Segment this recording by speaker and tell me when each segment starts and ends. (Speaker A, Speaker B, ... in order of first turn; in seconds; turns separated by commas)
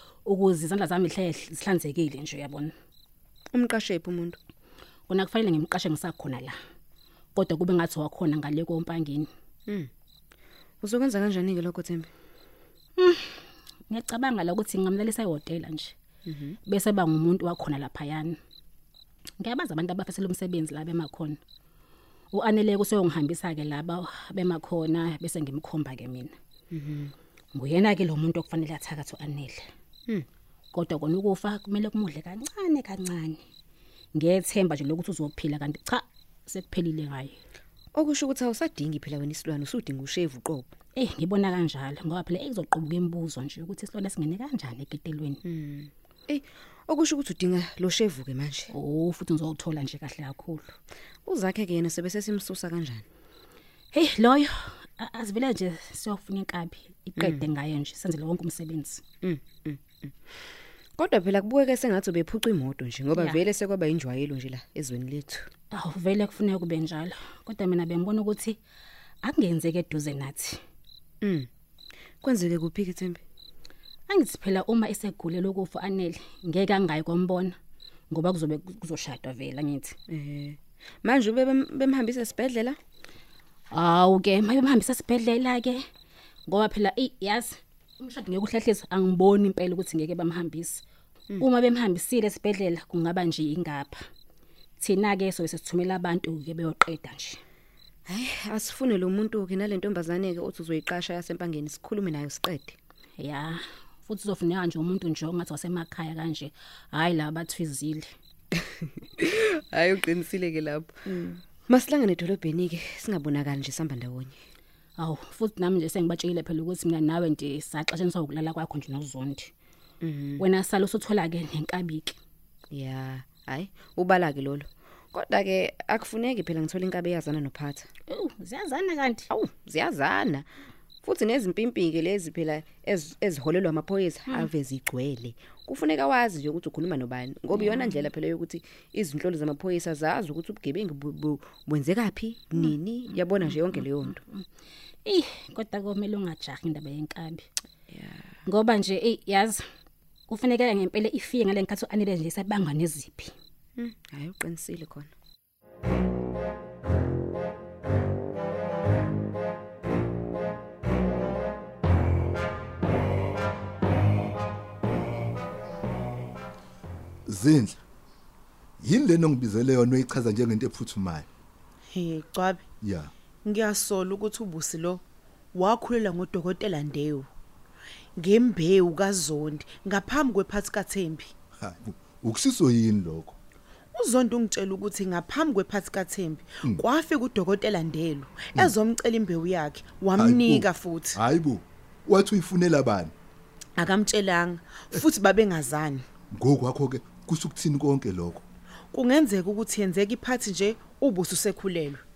Speaker A: 0.3-2.7, Speaker B: 3.5-4.4, Speaker A: 5.1-6.5, Speaker A: 7.3-9.3, Speaker B: 10.8-12.1, Speaker A: 13.0-13.3, Speaker A: 13.9-15.9, Speaker B: 16.3-16.6, Speaker A: 16.7-18.4, Speaker A: 19.4-21.4, Speaker A: 22.3-26.3, Speaker B: 26.7-27.1, Speaker A: 27.6-29.6, Speaker A: 30.7-33.4, Speaker A: 34.1-37.4, Speaker B: 37.9-40.7, Speaker A: 41.0-45.4, Speaker B: 45.4-48.7, Speaker A: 48.7-50.7, Speaker B: 51.2-53.0, Speaker A: 53.9-59.0, Speaker B: 57.2-57.5, Speaker B: 59.2-60.1, Speaker B: 61.0-65.5, Speaker A: 63.1-63.5, Speaker A: 65.7-68.6, Speaker A: 69.2-70.6, Speaker B: 71.2-71.5, Speaker B: 72.2-73.2, Speaker A: 74.1-77.5, Speaker A: 78.1-80.0, Speaker B: 80.1-82.8, Speaker A: 83.7-85.8, Speaker A: 86.5-90.8, Speaker A: 91.4-94.0, Speaker A: 94.8-97.4, Speaker B: 98.1-102.8, Speaker A: 103.2-108.1, Speaker B: 109.2-114.4, Speaker A: 115.0-119.5, Speaker B: 120.0-120.4, Speaker A: 120.4-122.2, Speaker B: 122.7-127.9, Speaker A: 128.1-129.3, Speaker B: 129.3-130.5, Speaker B: 131.0-144.2, Speaker A: 134.3-134.5, Speaker A: 137.5-138.1, Speaker A: 142.5-144.5, Speaker A: 145.1-147.5, Speaker B: 147.9-148.3, Speaker A: 148.5-149.6, Speaker A: 150.3-153.3, Speaker B: 153.8-155.1, Speaker C: 167.3-167.8, Speaker C: 168.8-171.3, Speaker D: 171.9-172.6, Speaker C: 172.8-173.1, Speaker D: 173.4-175.0, Speaker D: 175.5-177.3, Speaker D: 178.2-181.3, Speaker C: 181.6-183.4, Speaker D: 183.9-191.2, Speaker C: 190.2-193.1, Speaker D: 193.8-196.0, Speaker C: 196.3-198.4, Speaker D: 198.9-202.0